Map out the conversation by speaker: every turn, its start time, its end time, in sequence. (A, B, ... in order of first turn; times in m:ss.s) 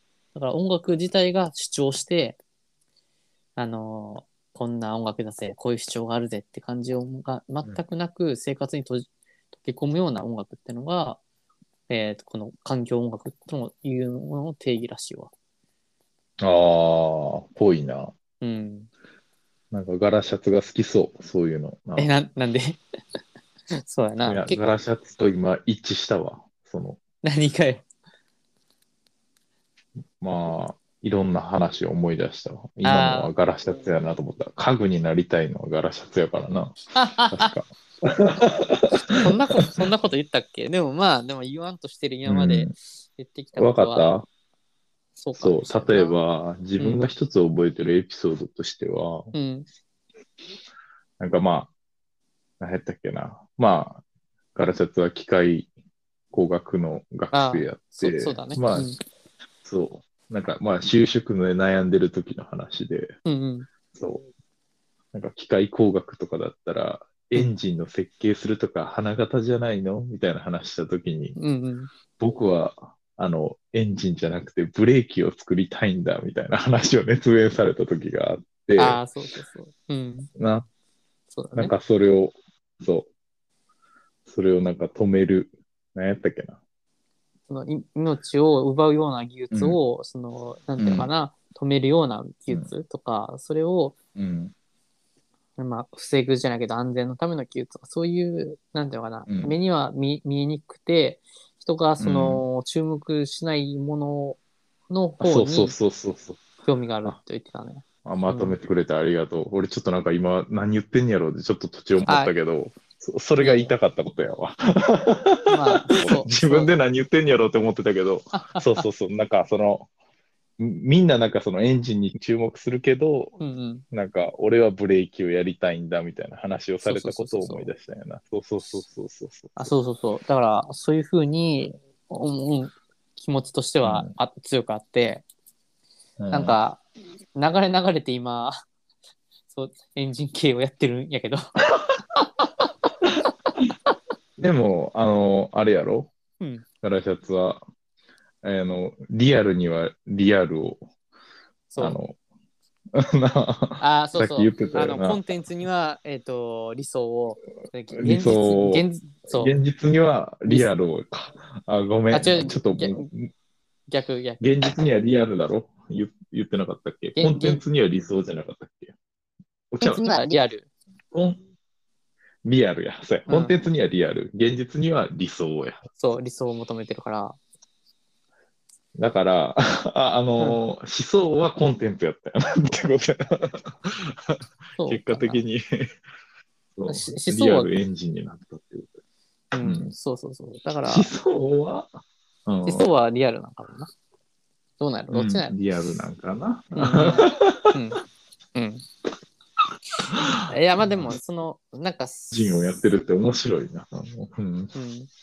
0:00.3-0:02.4 A
0:03.6-0:09.1 A
0:09.6-0:11.2 A
0:11.9-0:15.3 A
0:16.4-0:18.1 B
0:18.4-0:18.9 A
0:19.7-0:22.1 B
0:22.0-0:22.8 A
0:23.7-0:24.6 A
0:24.2-0:27.0 B
0:27.2-0:27.8 A
0:30.2-0:36.8 B
0:32.8-0:33.3 A
0:36.9-0:37.6 A
0:37.3-0:39.3 B
0:38.9-0:44.1 A
0:42.3-0:42.7 B
0:43.6-0:44.3 B
0:45.2-0:46.2 A
0:45.4-0:49.3 B
0:46.8-0:47.0 A
0:49.3-0:49.7 A
0:51.2-0:51.7 B
0:52.6-0:54.0 B
0:54.6-0:55.7 B
0:56.3-0:58.9 B
0:57.3-0:59.0 A
0:59.6-1:03.2 B
1:03.2-1:03.7 A
1:03.9-1:04.2 B
1:05.1-1:11.4 B
1:11.4-1:11.9 A
1:12.2-1:19.0 B
1:18.8-1:20.3 A
1:20.4-1:20.7 B
1:21.3-1:21.7 A
1:21.6-1:23.1 B
1:24.3-1:26.6 B
1:27.5-1:34.0 A
1:29.5-1:29.8 B
1:30.8-1:31.1 B
1:34.2-1:34.5 B
1:35.6-1:45.8 A
1:39.3-1:39.6 B
1:42.0-1:42.4 B
1:45.2-1:46.4 B
1:46.6-1:48.6 A
1:48.0-1:59.9 B
1:52.1-1:52.3 A
1:53.4-1:53.7 A
1:55.5-1:56.7 A
1:58.3-1:58.8 A
2:00.6-2:03.4 B
2:03.4-2:03.8 A
2:03.9-2:09.7 B
2:06.8-2:07.7 A
2:09.6-2:15.2 A
2:13.8-2:14.1 B
2:16.2-2:16.6 B
2:16.3-2:16.8 A
2:17.4-2:18.6 A
2:19.5-2:21.4 A
2:24.4-2:26.1 B
2:26.4-2:26.6 A
2:26.8-2:27.6 B
2:28.4-2:30.8 B
2:31.7-2:32.0 A
2:31.8-2:32.2 B
2:33.0-2:35.2 B
2:33.8-2:39.5 A
2:37.9-2:43.3 B
2:42.1-2:43.1 A
2:43.9-2:44.4 A
2:44.4-2:48.9 B
2:47.2-2:47.6 A
2:49.7-2:50.4 B
2:49.8-2:50.7 A
2:51.1-2:51.4 B
2:52.4-2:55.8 B
2:53.3-2:53.6 A
2:56.0-2:57.4 A
2:59.0-3:05.9 B
3:04.8-3:05.4 A
3:06.8-3:08.9 B
3:06.9-3:07.7 A
3:09.5-3:11.1 A
3:09.6-3:09.9 B
3:10.8-3:11.9 B
3:12.5-3:12.9 B
3:12.6-3:13.9 A
3:14.8-3:15.5 A
3:15.1-3:17.8 B
3:16.8-3:18.0 A
3:18.6-3:18.8 A
3:20.1-3:21.1 B
3:20.5-3:22.4 A
3:22.3-3:24.7 B
3:24.8-3:25.1 A